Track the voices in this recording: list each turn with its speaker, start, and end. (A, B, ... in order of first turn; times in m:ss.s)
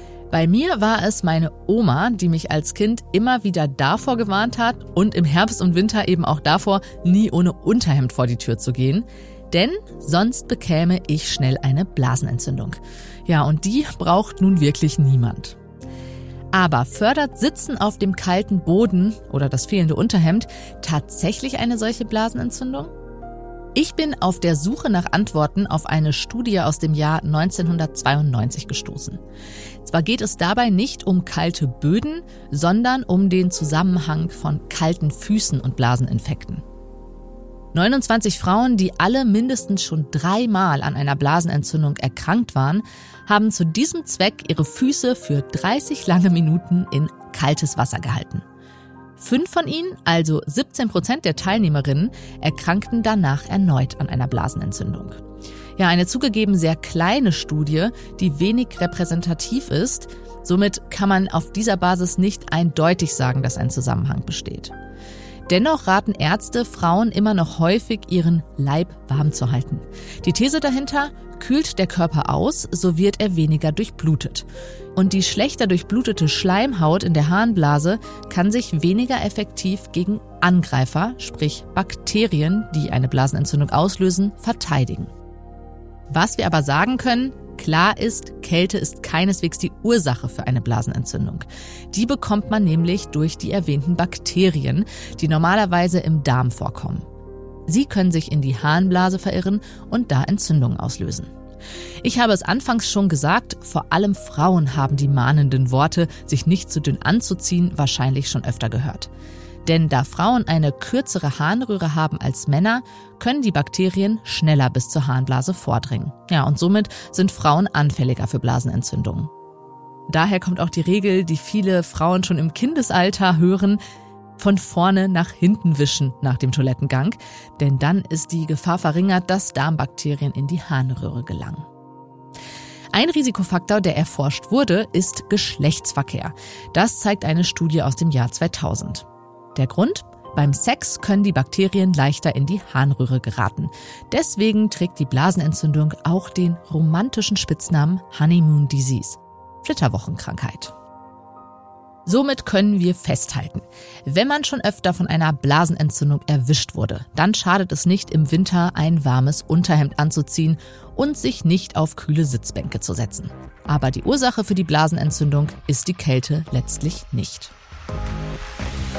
0:00.3-0:15.6 A
0:16.5-0:22.9 A
0:23.8-0:29.2 A
0:29.8-0:36.6 A
0:37.7-0:48.4 A
0:49.2-0:55.2 A
0:55.8-1:04.7 A
1:05.5-1:25.1 A
1:26.1-1:37.0 A
1:37.7-1:41.3 A
1:42.0-1:49.1 A
1:49.6-1:59.3 A
2:00.1-2:03.8 A
2:04.4-2:11.7 A
2:12.9-2:30.8 A
2:32.1-2:47.5 A